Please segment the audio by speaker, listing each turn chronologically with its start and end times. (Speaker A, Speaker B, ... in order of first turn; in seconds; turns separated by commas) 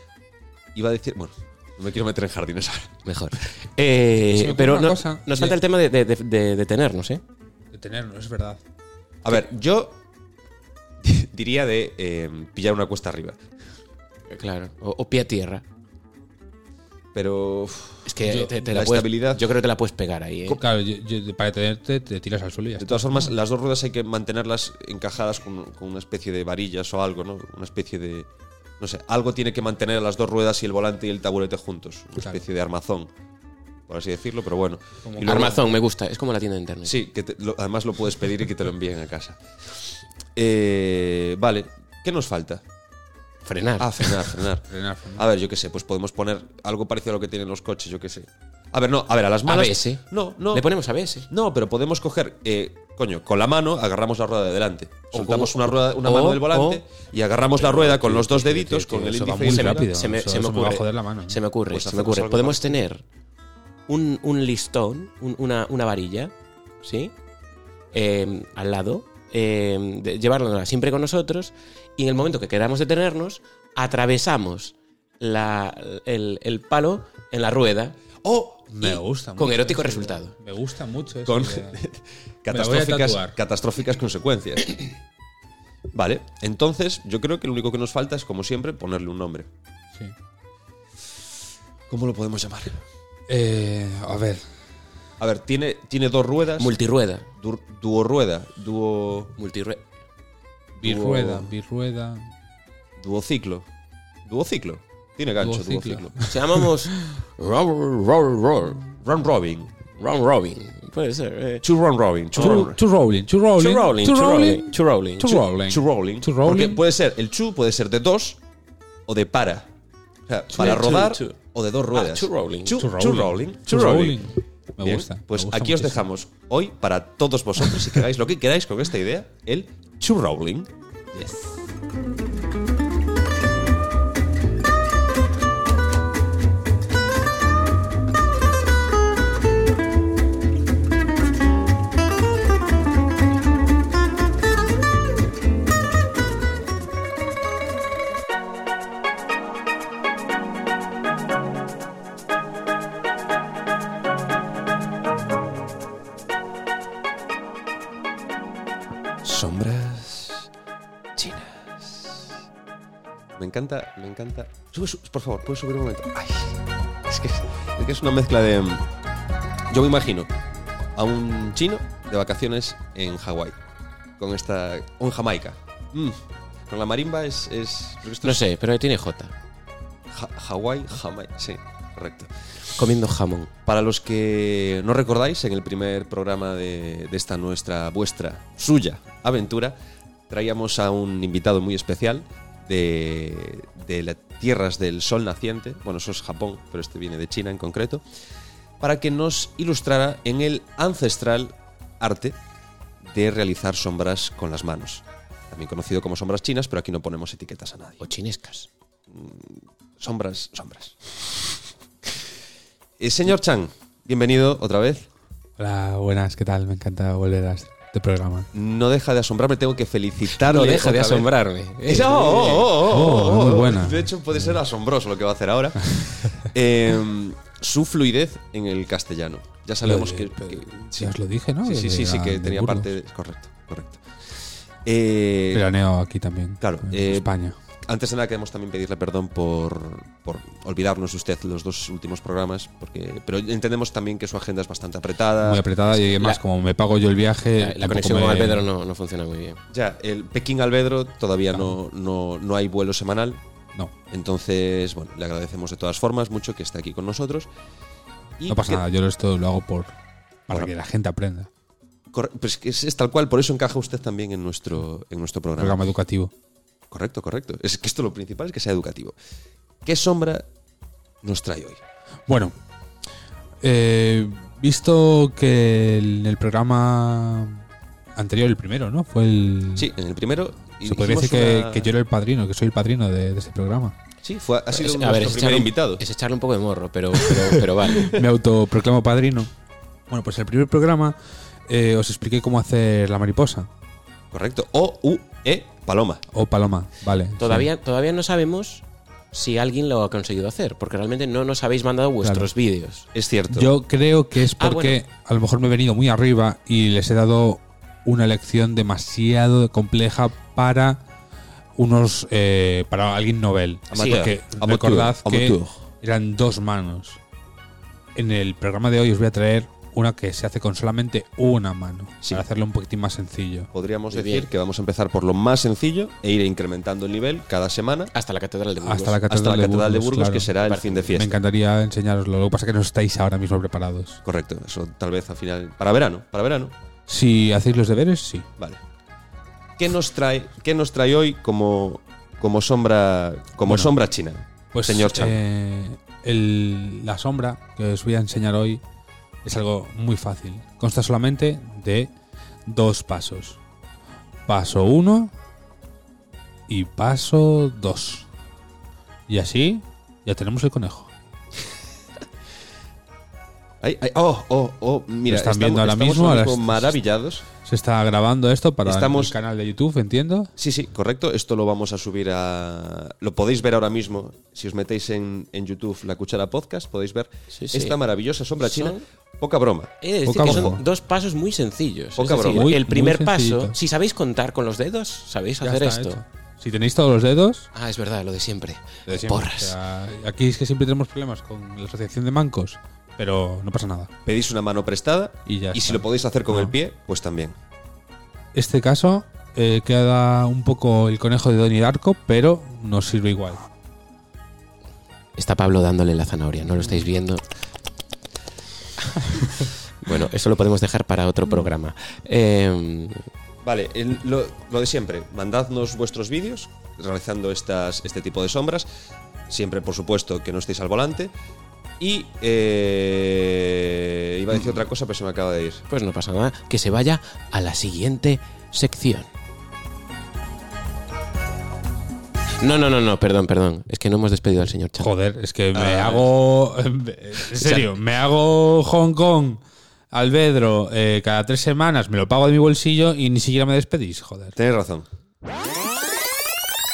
Speaker A: 0.8-3.0, Speaker B: 3.0-7.2, Speaker C: 4.3-5.6, Speaker C: 7.7-8.6, Speaker A: 9.2-10.0, Speaker A: 11.0-13.4, Speaker B: 14.3-15.6, Speaker A: 17.1-19.5, Speaker B: 18.1-20.6, Speaker C: 18.2-18.5, Speaker C: 20.5-23.3, Speaker A: 22.8-28.3, Speaker A: 28.8-33.1, Speaker A: 33.9-35.6, Speaker C: 35.0-35.6, Speaker B: 35.2-37.0, Speaker A: 36.9-42.6, Speaker B: 43.5-44.4, Speaker A: 43.8-50.7, Speaker C: 44.7-45.2, Speaker B: 49.5-51.3, Speaker A: 51.3-59.9, Speaker B: 55.1-56.8, Speaker B: 57.6-63.0, Speaker C: 58.9-61.4, Speaker A: 61.7-62.8, Speaker B: 63.9-67.1, Speaker B: 67.9-78.0, Speaker A: 78.2-78.7, Speaker C: 78.7-81.8, Speaker B: 78.8-80.3, Speaker A: 81.2-84.8, Speaker C: 82.5-83.4, Speaker A: 85.9-89.5, Speaker A: 91.9-92.8, Speaker C: 93.3-94.5, Speaker A: 95.2-96.7, Speaker B: 96.6-97.3, Speaker A: 97.4-99.3, Speaker B: 99.4-99.8, Speaker C: 100.8-102.3, Speaker B: 100.8-101.4, Speaker A: 103.0-103.7, Speaker A: 104.2-106.2, Speaker C: 105.4-107.2, Speaker B: 106.2-108.8, Speaker A: 108.9-109.7, Speaker B: 110.0-111.7, Speaker A: 111.6-112.8, Speaker B: 112.3-112.7, Speaker C: 112.4-116.8, Speaker B: 113.5-115.5, Speaker A: 115.7-118.4, Speaker A: 119.1-119.7, Speaker A: 120.3-124.2, Speaker B: 120.5-121.4, Speaker B: 121.9-122.8, Speaker C: 122.8-126.0, Speaker A: 124.8-130.7, Speaker C: 131.1-131.6, Speaker A: 159.2-160.5, Speaker A: 161.2-162.4, Speaker A: 163.4-168.9, Speaker A: 169.7-170.3, Speaker A: 170.9-173.6, Speaker A: 174.2-178.4, Speaker B: 178.2-179.3, Speaker A: 180.1-182.3, Speaker B: 182.8-183.5, Speaker A: 183.7-189.8, Speaker A: 190.3-198.0, Speaker A: 198.8-202.4, Speaker A: 203.0-208.0, Speaker B: 208.0-208.7, Speaker A: 209.1-211.4, Speaker A: 213.0-215.1, Speaker C: 215.6-218.5, Speaker A: 218.5-221.3, Speaker B: 220.3-222.8, Speaker A: 221.8-234.0, Speaker C: 222.8-224.5, Speaker C: 226.0-226.4, Speaker C: 229.8-232.9, Speaker A: 234.8-235.7, Speaker C: 235.5-237.6, Speaker A: 236.6-237.3, Speaker A: 237.8-245.6, Speaker C: 245.4-248.7, Speaker B: 247.6-249.6, Speaker A: 249.7-253.4, Speaker A: 254.1-257.5, Speaker A: 258.4-258.8, Speaker C: 258.5-259.9, Speaker C: 260.5-261.5, Speaker A: 262.1-265.8, Speaker C: 265.6-266.3, Speaker A: 266.9-269.2, Speaker A: 269.8-270.5, Speaker A: 271.2-271.8, Speaker C: 272.3-272.5, Speaker C: 273.6-277.6, Speaker C: 278.2-279.9, Speaker A: 279.8-281.9, Speaker C: 280.8-284.0, Speaker A: 284.2-286.0, Speaker B: 284.7-288.2, Speaker C: 287.6-289.5, Speaker C: 290.1-293.7, Speaker A: 294.3-296.2, Speaker C: 296.3-297.7, Speaker B: 297.4-303.1, Speaker C: 302.2-302.5, Speaker A: 303.1-303.7, Speaker C: 303.5-311.0, Speaker B: 304.5-305.0, Speaker C: 311.8-317.2, Speaker A: 313.9-315.7, Speaker B: 313.9-314.3, Speaker C: 318.1-323.7, Speaker A: 323.7-328.1, Speaker B: 324.1-324.5, Speaker B: 328.1-329.2, Speaker C: 328.8-330.5, Speaker A: 329.3-331.4, Speaker B: 330.6-331.2, Speaker C: 331.1-334.2, Speaker A: 334.2-336.8, Speaker C: 337.1-338.5, Speaker A: 339.8-345.4, Speaker C: 343.7-343.9, Speaker C: 344.7-348.8, Speaker C: 349.4-352.1, Speaker C: 352.7-353.6, Speaker C: 354.5-355.3, Speaker C: 356.7-358.3, Speaker C: 359.3-361.1, Speaker A: 363.8-367.4, Speaker C: 365.3-367.0, Speaker C: 367.5-370.5, Speaker A: 368.9-369.4, Speaker A: 370.6-380.7, Speaker B: 377.5-378.0, Speaker B: 378.6-379.0, Speaker B: 380.0-386.2, Speaker C: 380.2-380.8, Speaker A: 382.2-382.7, Speaker C: 382.5-383.8, Speaker C: 385.6-387.7, Speaker B: 387.7-389.8, Speaker C: 389.1-394.1, Speaker A: 394.2-397.6, Speaker C: 395.5-396.8, Speaker C: 398.5-403.6, Speaker B: 405.4-407.4, Speaker B: 410.0-413.3, Speaker A: 413.6-418.9, Speaker A: 419.5-421.3, Speaker A: 422.0-425.8, Speaker B: 425.9-429.3, Speaker B: 432.6-435.1, Speaker C: 435.0-439.6, Speaker A: 435.7-436.3, Speaker C: 440.1-444.6, Speaker A: 444.6-445.1